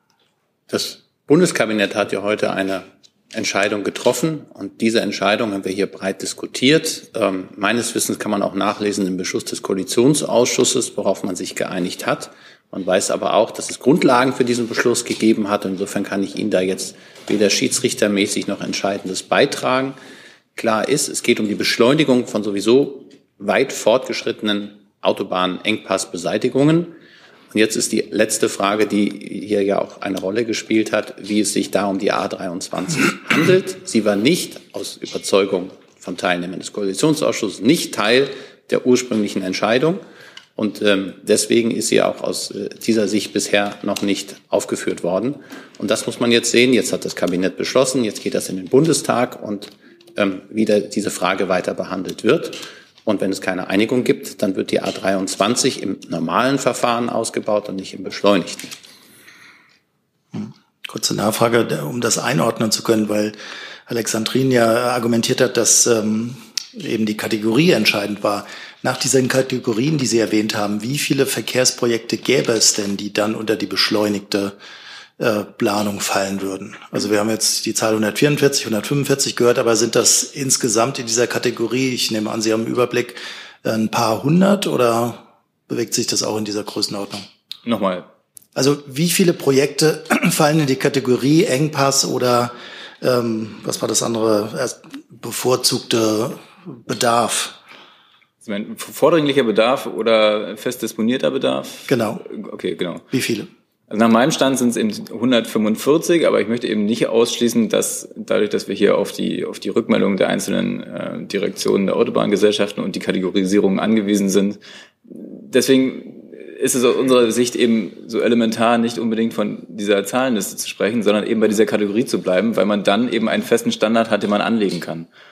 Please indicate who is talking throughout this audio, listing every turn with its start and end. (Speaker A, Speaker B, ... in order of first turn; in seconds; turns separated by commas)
Speaker A: 0.7-20.0, Speaker A: 20.6-26.9, Speaker A: 27.5-40.0, Speaker A: 40.5-58.7, Speaker B: 60.3-74.5, Speaker B: 75.2-87.2, Speaker C: 87.6-88.1, Speaker B: 88.5-97.6, Speaker C: 98.4-103.0, Speaker B: 101.9-102.2, Speaker B: 103.1-103.5, Speaker C: 103.9-125.1